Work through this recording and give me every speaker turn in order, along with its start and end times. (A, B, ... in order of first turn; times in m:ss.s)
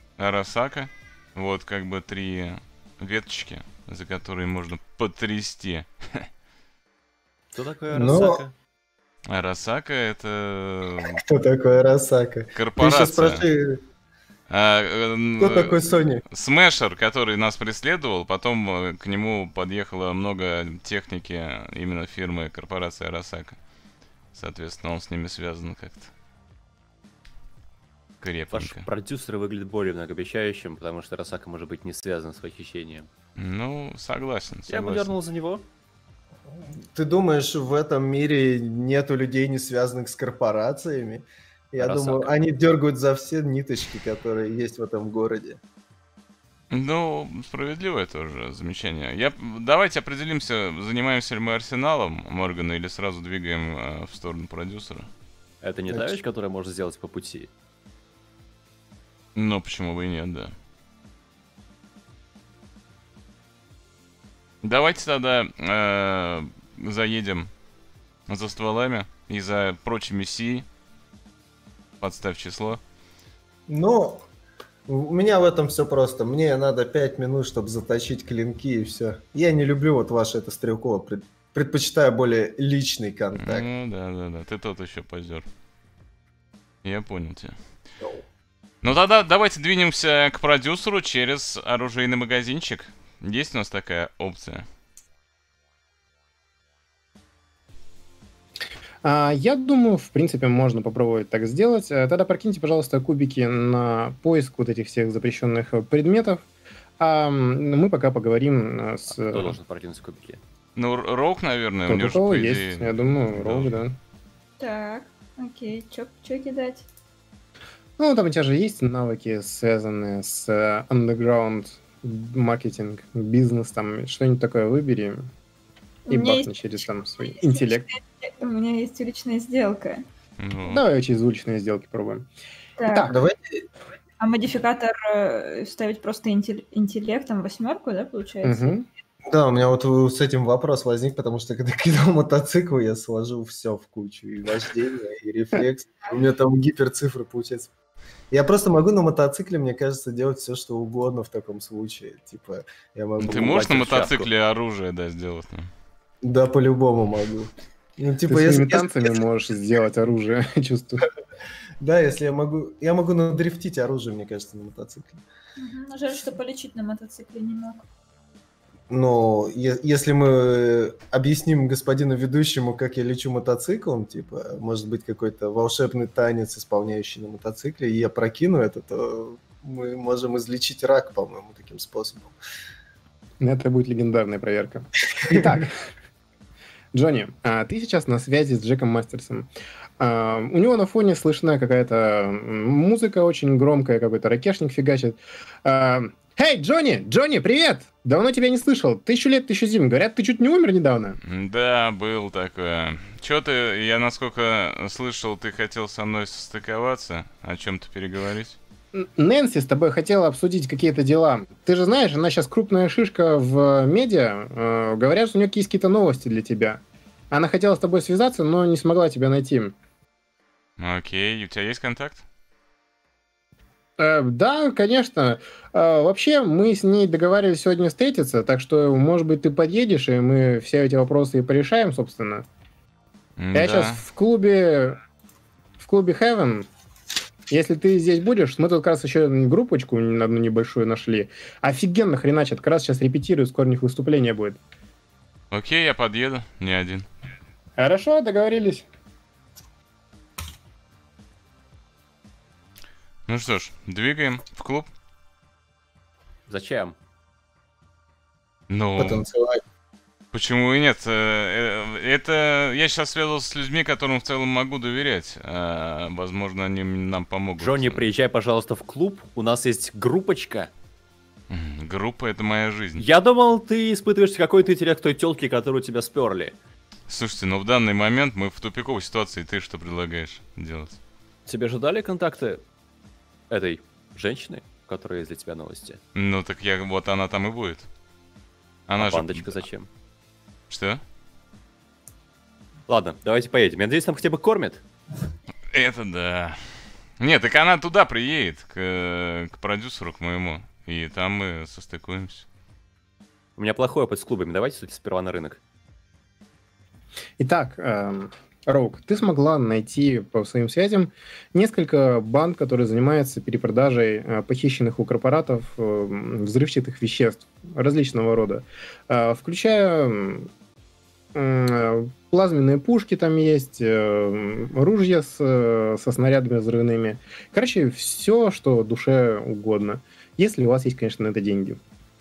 0:00.2-0:06.3 A
0:07.5-0:08.5 B
0:07.9-0:08.4 C
0:09.3-0:11.2 A
0:11.1-0:13.8 C
0:12.5-0:13.4 A
0:14.5-0:23.6 A
0:15.4-0:16.2 C
0:24.3-0:26.1 A
0:28.2-0:28.8 A
0:28.5-0:33.1 B
0:33.4-0:35.1 A
0:34.7-0:35.6 B
0:36.5-0:45.6 C
0:41.8-0:42.3 B
0:46.7-0:55.1 A
0:55.6-0:57.5 B
0:59.3-1:00.5 A
1:04.6-1:07.5 A
1:08.3-1:10.6 A
1:12.0-1:12.8 A
1:13.7-1:14.2 C
1:14.9-1:23.6 C
1:23.4-1:25.4 A
1:26.8-1:27.6 A
1:28.0-1:28.2 C
1:28.8-1:34.6 A
1:39.0-1:46.4 D
1:47.0-1:49.6 D
1:49.2-1:50.4 B
1:50.8-1:53.7 A
1:51.9-1:54.0 D
1:54.6-1:56.8 E
1:58.0-2:05.3 D
2:06.1-2:06.5 E
2:06.1-2:07.9 D
2:07.3-2:10.0 E
2:10.4-2:10.8 A
2:10.6-2:12.3 D
2:12.8-2:13.1 E
2:12.9-2:13.2 D
2:13.0-2:13.6 C
2:14.2-2:18.7 E
2:18.4-2:18.9 D
2:19.3-2:27.7 C
2:28.3-2:33.7 C
2:33.2-2:35.7 A
2:33.2-2:34.3 B
2:36.2-2:39.1 C
2:38.3-2:41.1 D
2:41.8-2:45.2 C
2:45.6-2:47.8 E
2:48.9-3:02.4 C
3:03.4-3:05.8 D
3:06.9-3:21.2 D
3:21.2-3:28.6 A
3:28.9-3:39.7 D
3:40.8-3:42.2 A
3:44.0-3:52.4 D
3:53.4-3:54.0 A
3:53.5-3:55.0 D
3:55.8-3:56.7 D
3:57.5-4:04.6 D
4:05.5-4:07.1 A
4:07.8-4:08.8 D
4:13.3-4:14.9 A
4:16.5-4:16.9 B
4:18.7-4:19.2 A
4:19.0-4:19.6 C
4:20.3-4:28.0 A
4:27.6-4:30.7 B
4:31.5-4:33.0 A
4:33.0-4:36.6 B
4:37.1-4:41.0 A
4:41.5-4:42.6 B
4:43.5-4:46.0 B
4:46.1-4:47.9 A
4:48.9-4:49.6 A
4:49.0-4:49.9 B
4:50.7-4:51.0 A
4:52.9-4:54.8 B
4:55.7-5:02.4 A
5:03.6-5:05.6 B
5:07.4-5:20.5 D
5:21.3-5:31.8 D